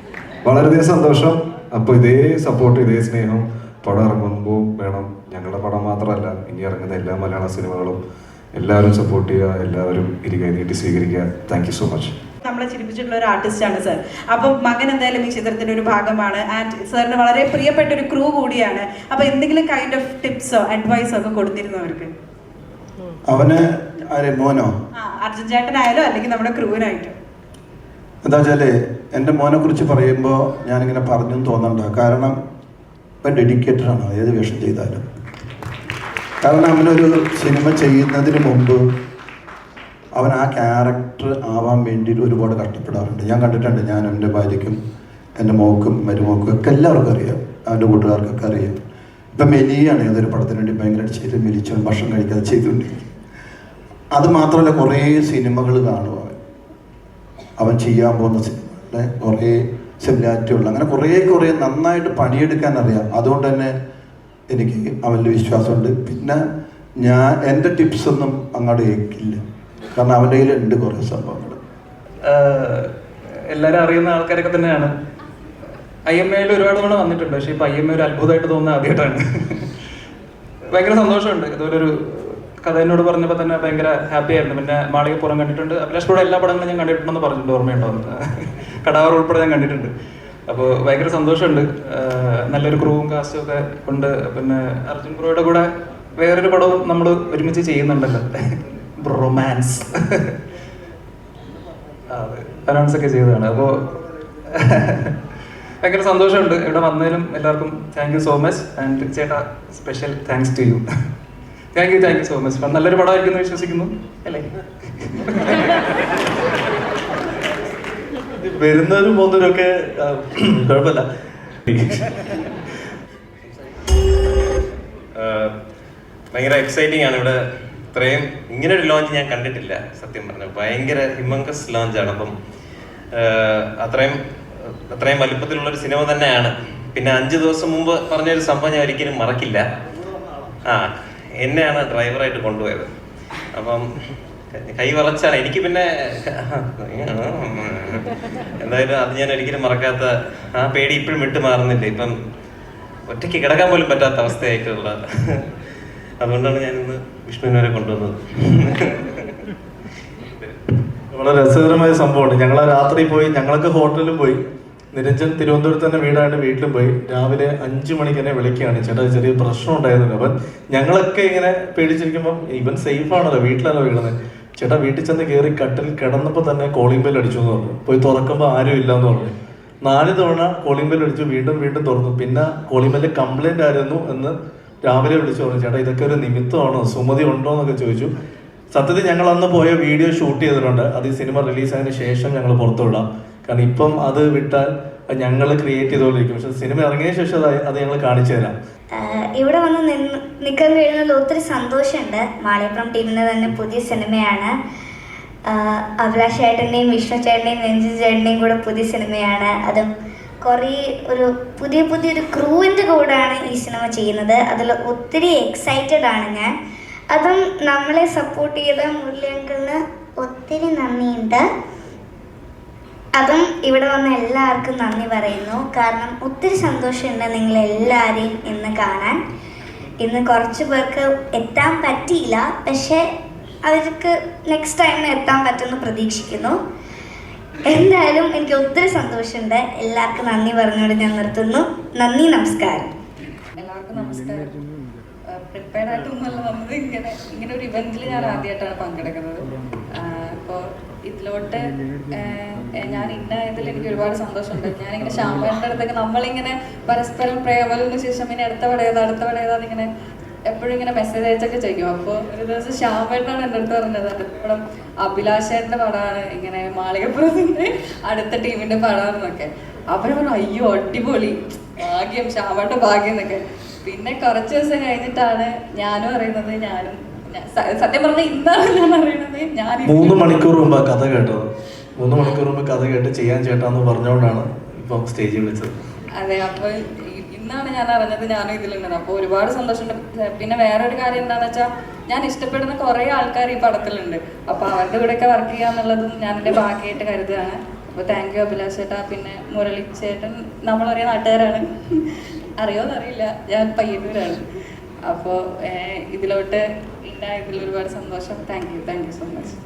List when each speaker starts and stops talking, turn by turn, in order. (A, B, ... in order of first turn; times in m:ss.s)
0:00.4-0:08.0 A
0:08.6-0:12.1 A
0:12.4-0:22.1 B
0:23.3-0:24.7 C
0:25.0-0:27.1 B
0:28.2-0:32.4 C
0:33.2-0:35.0 C
0:36.4-0:38.8 C
0:40.1-0:44.8 C
0:45.4-0:48.8 C
0:49.3-0:53.0 C
0:54.1-0:56.3 C
0:57.6-1:03.7 C
1:04.5-1:06.4 C
1:07.0-1:09.4 C
1:09.9-1:11.6 C
1:12.2-1:12.9 D
1:13.5-1:14.9 D
1:16.1-1:19.7 D
1:20.7-1:29.9 D
1:30.5-1:40.4 D
1:42.1-1:43.9 D
1:44.5-1:45.1 D
1:45.8-1:50.8 D
1:51.7-1:55.8 D
1:58.4-2:01.0 E
2:01.7-2:02.3 E
2:05.2-2:05.5 F
2:06.3-2:07.4 F
2:07.9-2:12.3 F
2:13.1-2:14.2 F
2:14.9-2:19.6 F
2:20.7-2:22.9 F
2:23.5-2:23.9 F
2:24.5-2:28.0 F
2:28.6-2:32.2 F
2:33.1-2:35.4 F
2:36.2-2:39.3 F
2:41.1-2:44.4 E
2:44.9-3:08.1 E
3:08.7-3:18.5 E
3:18.9-3:24.5 G
3:25.4-3:29.9 G
3:30.4-3:36.5 G
3:37.1-3:41.5 G
3:43.2-3:49.2 G
3:50.0-3:53.0 G
3:53.6-3:56.6 G
3:57.6-4:02.9 G
4:03.5-4:04.6 H
4:05.5-4:19.9 H
4:20.5-4:40.5 H
4:39.8-4:41.4 E
4:42.0-4:45.7 E
4:46.2-5:04.4 H
5:05.1-5:09.5 H